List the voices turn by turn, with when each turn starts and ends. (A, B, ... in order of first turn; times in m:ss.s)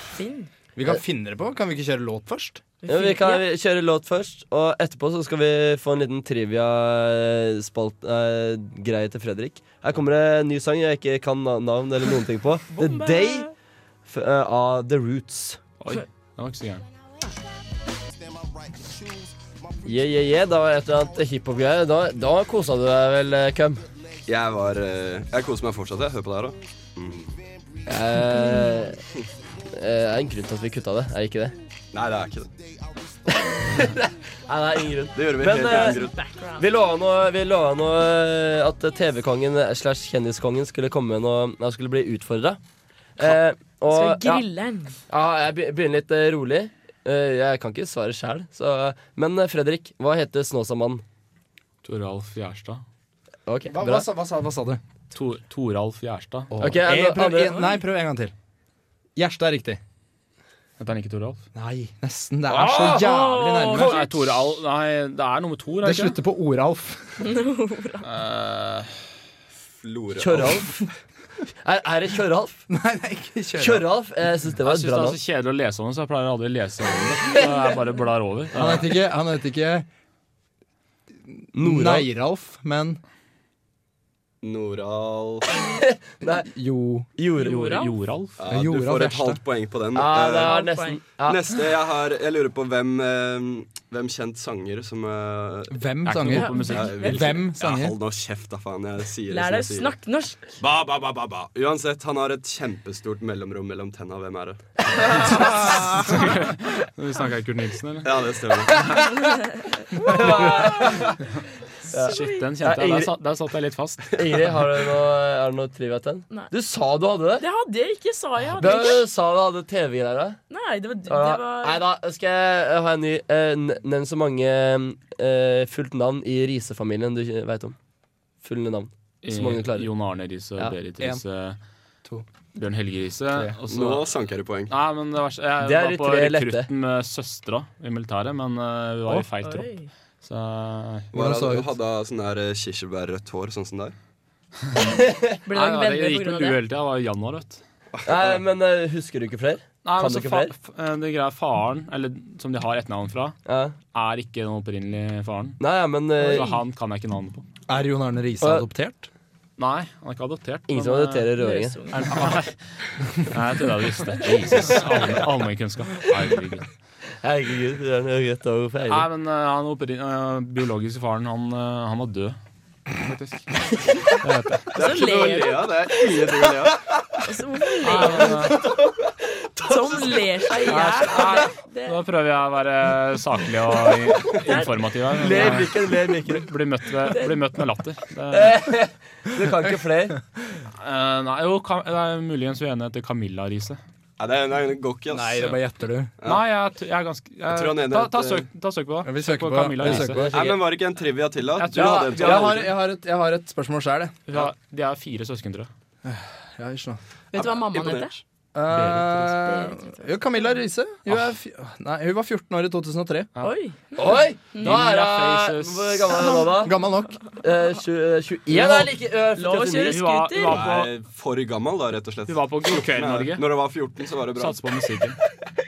0:00.2-0:00.5 A
0:00.8-0:02.6 B
0:02.8-0:03.4 A
0:02.9-0:13.5 C
0:12.7-0:13.5 A
0:14.1-0:15.6 C
0:15.8-0:16.9 D
0:19.8-0:23.8 C
0:24.3-0:27.4 E
0:27.9-0:29.0 C
0:28.5-0:28.8 A
0:29.7-0:31.6 C
0:31.9-0:32.5 E
0:33.6-0:42.6 C
0:35.2-0:36.2 E
0:35.7-0:36.7 A
0:43.2-0:44.5 C
0:43.9-0:45.0 A
0:45.1-0:51.0 C
0:51.8-0:52.8 D
0:53.5-0:54.1 C
0:53.7-0:54.8 B
0:55.1-0:56.5 D
0:56.5-0:58.3 B
0:56.6-0:57.7 C
0:59.2-0:59.8 B
1:00.8-1:01.4 D
1:01.6-1:04.0 B
1:02.5-1:03.1 C
1:02.8-1:04.0 A
1:03.6-1:04.2 C
1:03.8-1:06.2 D
1:05.8-1:07.2 B
1:07.2-1:08.1 A
1:08.0-1:08.9 D
1:09.8-1:10.6 E
1:10.2-1:10.9 C
1:11.6-1:12.7 C
1:12.7-1:13.9 B
1:13.6-1:15.2 C
1:14.6-1:18.9 D
1:18.5-1:19.9 B
1:21.5-1:23.0 B
1:21.6-1:22.1 C
1:24.4-1:25.5 E
1:25.8-1:26.5 C
1:26.2-1:27.1 B
1:27.2-1:27.8 C
1:27.4-1:27.9 A
1:27.4-1:28.4 D
1:28.4-1:30.6 E
1:28.5-1:29.4 B
1:29.9-1:31.4 C
1:30.4-1:31.0 A
1:31.2-1:35.8 E
1:35.7-1:38.0 B
1:36.0-1:37.4 D
1:36.3-1:37.3 A
1:36.7-1:40.0 E
1:39.3-1:40.5 A
1:40.6-1:44.6 E
1:45.3-1:45.7 A
1:45.5-1:48.1 D
1:48.0-1:48.9 E
1:49.2-1:51.1 A
1:49.9-1:51.1 C
1:51.9-1:53.1 C
1:51.9-1:52.4 A
1:52.1-1:54.3 D
1:54.1-1:57.4 C
1:57.4-1:59.1 A
1:58.6-2:00.4 C
2:00.5-2:01.8 A
2:01.1-2:07.8 C
2:08.4-2:09.9 C
2:09.2-2:11.6 D
2:10.7-2:11.2 B
2:12.6-2:14.1 D
2:13.7-2:14.7 E
2:14.7-2:19.7 D
2:15.6-2:16.7 C
2:19.4-2:19.9 A
2:20.2-2:21.1 D
2:21.1-2:21.7 B
2:21.1-2:24.0 E
2:25.0-2:25.3 C
2:25.5-2:26.6 A
2:25.5-2:27.6 D
2:28.0-2:28.4 E
2:28.0-2:30.5 C
2:29.8-2:33.4 D
2:33.5-2:33.8 C
2:33.9-2:35.6 D
2:35.6-2:36.5 C
2:36.2-2:37.4 D
2:37.7-2:39.1 B
2:38.4-2:38.7 C
2:39.6-2:41.3 D
2:40.7-2:41.8 C
2:41.4-2:42.3 A
2:41.9-2:42.6 D
2:43.2-2:46.7 D
2:47.2-2:49.1 C
2:48.9-2:52.4 D
2:53.0-2:53.5 D
2:54.2-2:54.7 D
2:54.7-2:56.8 E
2:54.8-2:55.7 A
2:57.2-2:58.6 A
2:57.8-2:58.6 D
2:59.6-3:02.0 A
2:59.7-3:00.0 C
3:00.7-3:01.3 C
3:00.8-3:08.6 D
3:04.4-3:05.7 A
3:05.2-3:06.5 C
3:07.1-3:07.4 A
3:08.3-3:10.2 C
3:10.8-3:13.8 D
3:14.2-3:15.6 E
3:15.1-3:16.1 B
3:16.2-3:20.3 D
3:17.5-3:18.5 E
3:19.0-3:20.4 B
3:19.8-3:20.6 C
3:20.3-3:22.7 E
3:21.6-3:22.6 D
3:21.7-3:24.2 B
3:24.3-3:25.7 D
3:26.0-3:27.0 B
3:27.3-3:28.2 A
3:27.3-3:28.1 E
3:28.5-3:33.3 B
3:28.7-3:29.3 D
3:29.3-3:30.1 A
3:33.4-3:34.8 A
3:34.0-3:36.8 C
3:34.6-3:36.3 D
3:36.6-3:37.2 B
3:37.4-3:40.0 C
3:39.3-3:40.6 A
3:39.9-3:40.9 D
3:40.4-3:44.6 E
3:42.3-3:43.5 D
3:44.4-3:45.2 D